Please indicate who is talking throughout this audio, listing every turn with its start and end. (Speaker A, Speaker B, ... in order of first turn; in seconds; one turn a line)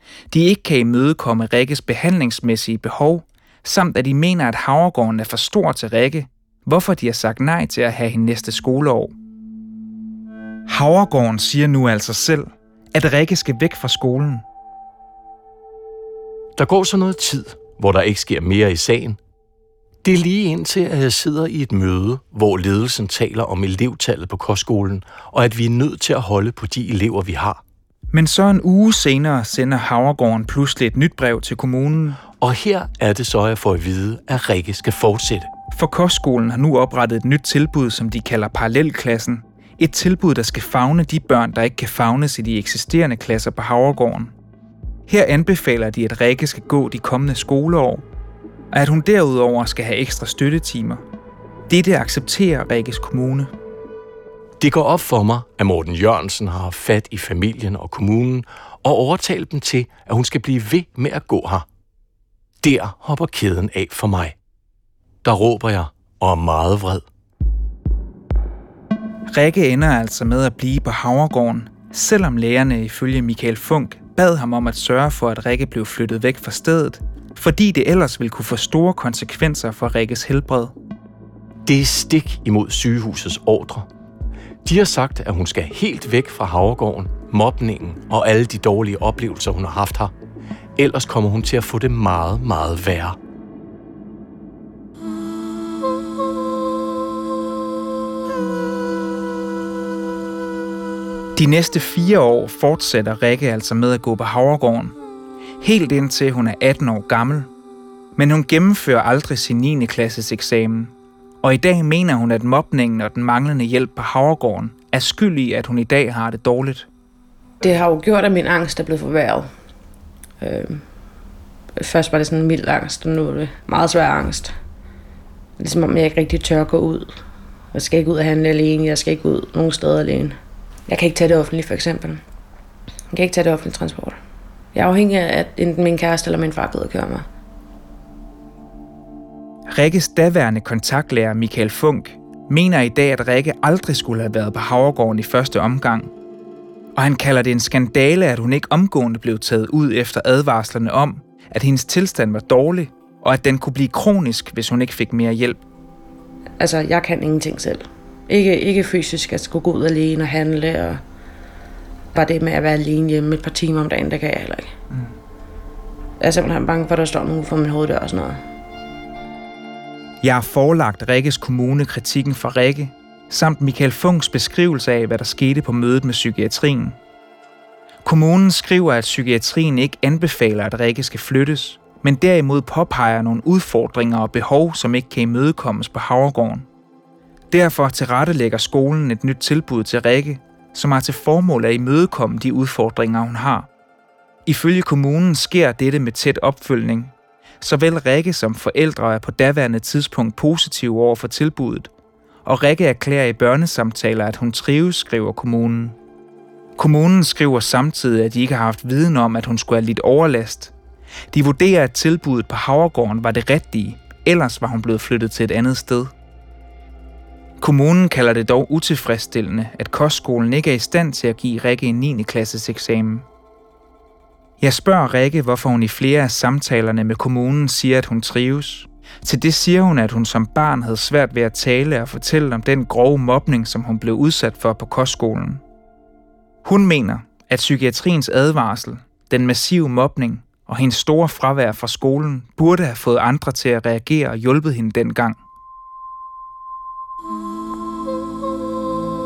Speaker A: 0.3-9.1
Speaker A: 10.7-14.4
Speaker B: 16.6-19.2
Speaker B: 20.0-27.6
Speaker A: 28.1-32.2
Speaker B: 32.3-35.5
Speaker A: 35.7-44.3
Speaker A: 45.1-48.0
Speaker A: 48.7-51.0
Speaker A: 51.7-53.5
Speaker B: 54.6-61.7
Speaker B: 62.6-64.4
Speaker B: 65.2-67.0
Speaker A: 69.3-80.7
Speaker B: 81.7-83.9
Speaker B: 84.6-90.1
Speaker B: 90.8-93.2
Speaker A: 101.4-105.0
Speaker A: 105.6-107.5
Speaker A: 108.2-116.9
Speaker C: 117.6-119.5
Speaker C: 120.4-120.8
Speaker C: 121.8-124.5
Speaker C: 125.6-127.2
Speaker C: 127.7-130.4
Speaker C: 130.9-132.2
Speaker C: 133.1-134.2
Speaker C: 134.8-137.3
Speaker A: 139.7-146.1
Speaker A: 147.0-155.6
Speaker C: 156.6-161.0
Speaker C: 162.1-164.7
Speaker C: 166.2-168.4
Speaker A: 170.2-177.0
Speaker A: 178.0-186.7
Speaker A: 187.5-193.7
Speaker A: 194.5-201.9
Speaker A: 202.5-206.0
Speaker A: 206.8-210.7
Speaker A: 211.3-216.1
Speaker A: 217.6-223.3
Speaker A: 224.6-235.6
Speaker A: 236.7-245.4